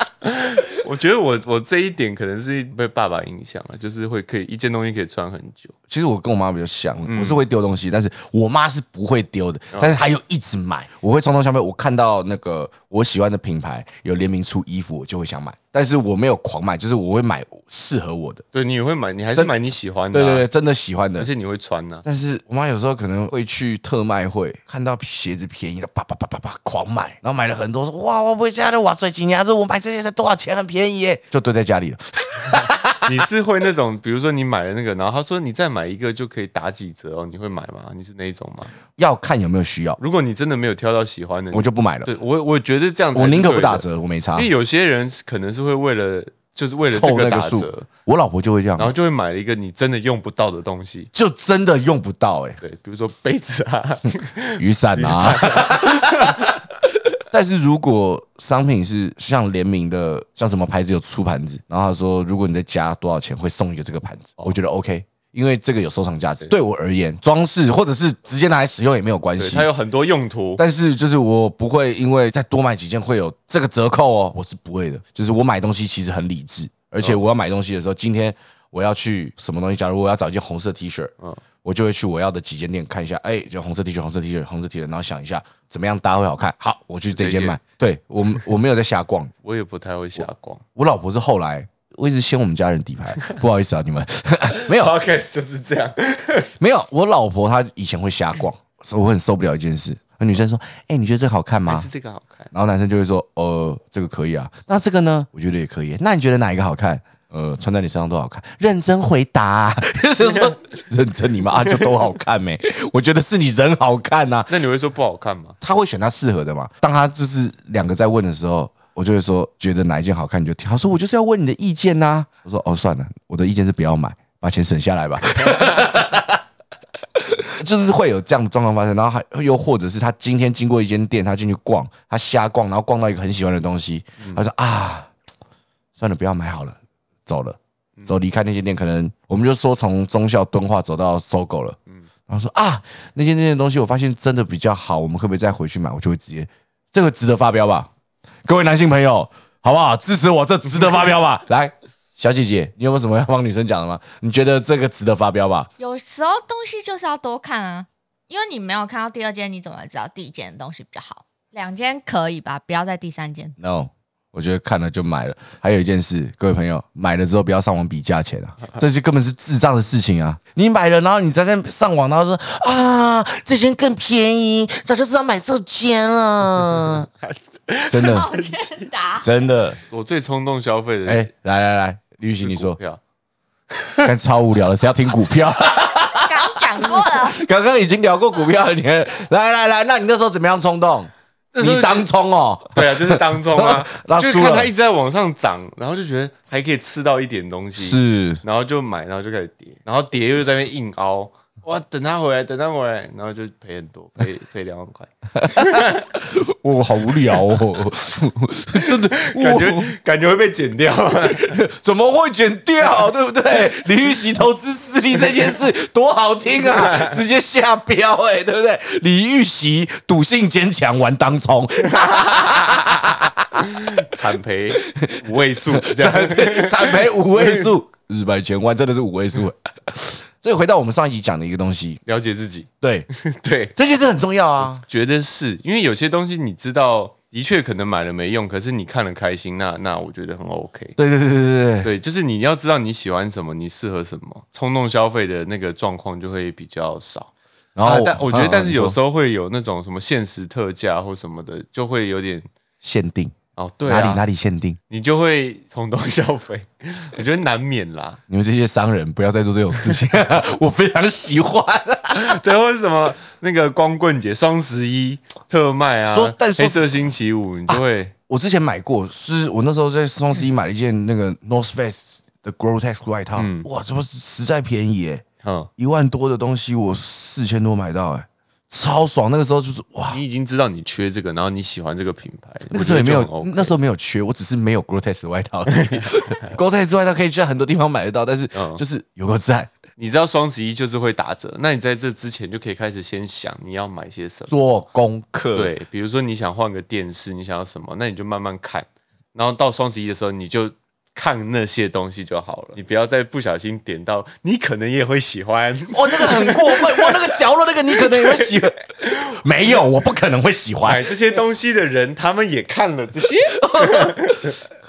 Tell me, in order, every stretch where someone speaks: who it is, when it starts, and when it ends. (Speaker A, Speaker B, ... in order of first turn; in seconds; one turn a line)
Speaker A: 0.2-5.7
Speaker B: 5.9-18.4
Speaker A: 7.1-7.4
Speaker A: 18.5-20.5
Speaker B: 20.1-21.3
Speaker A: 21.2-22.1
Speaker B: 22.1-33.1
Speaker A: 33.0-38.7
Speaker B: 39.0-40.0
Speaker A: 40.0-47.9
Speaker B: 41.5-42.1
Speaker B: 43.1-44.5
Speaker B: 46.9-48.9
Speaker A: 48.8-51.1
Speaker B: 51.1-52.6
Speaker A: 52.6-56.6
Speaker B: 54.6-56.5
Speaker B: 57.3-69.7
Speaker A: 69.4-70.6
Speaker B: 70.6-81.1
Speaker B: 81.6-89.3
Speaker A: 87.1-87.6
Speaker A: 89.4-90.6
Speaker B: 90.8-94.9
Speaker A: 94.5-96.5
Speaker B: 96.6-101.9
Speaker A: 101.7-102.5
Speaker B: 102.5-114.5
Speaker A: 114.5-115.6
Speaker B: 115.6-126.4
Speaker B: 127.2-135.1
Speaker B: 136.0-147.9
Speaker B: 148.4-155.7
Speaker C: 155.8-163.6
Speaker B: 163.6-177.1
Speaker A: 176.9-178.9
Speaker B: 177.9-178.3
Speaker C: 178.0-179.3
Speaker B: 179.2-179.8
Speaker A: 179.9-181.3
Speaker B: 181.1-182.8
Speaker A: 182.4-183.0
Speaker A: 183.7-184.1
Speaker B: 184.0-194.7
Speaker C: 186.0-187.4
Speaker A: 191.5-192.1
Speaker A: 192.8-206.2
Speaker B: 197.8-198.4
Speaker B: 205.4-209.9
Speaker A: 207.2-207.6
Speaker A: 208.8-211.6
Speaker B: 211.2-223.6
Speaker A: 216.7-217.2
Speaker A: 222.0-227.7
Speaker B: 224.9-232.0
Speaker A: 232.1-233.7
Speaker B: 232.8-233.1
Speaker B: 233.8-234.8
Speaker A: 234.6-241.0
Speaker B: 241.0-241.9
Speaker A: 241.8-247.3
Speaker B: 247.8-249.0
Speaker A: 247.8-252.5
Speaker B: 252.8-254.8
Speaker A: 253.6-254.2
Speaker A: 254.9-258.2
Speaker B: 258.3-262.4
Speaker A: 262.1-268.1
Speaker B: 266.1-266.9
Speaker B: 267.7-275.2
Speaker A: 273.4-273.7
Speaker A: 275.4-275.7
Speaker B: 275.8-280.2
Speaker A: 280.1-283.7
Speaker B: 282.7-289.7
Speaker A: 285.7-286.6
Speaker A: 288.5-288.8
Speaker A: 290.0-294.5
Speaker B: 294.5-295.7
Speaker A: 295.5-307.4
Speaker B: 305.9-311.2
Speaker A: 307.9-309.8
Speaker A: 310.8-314.6
Speaker B: 313.5-314.3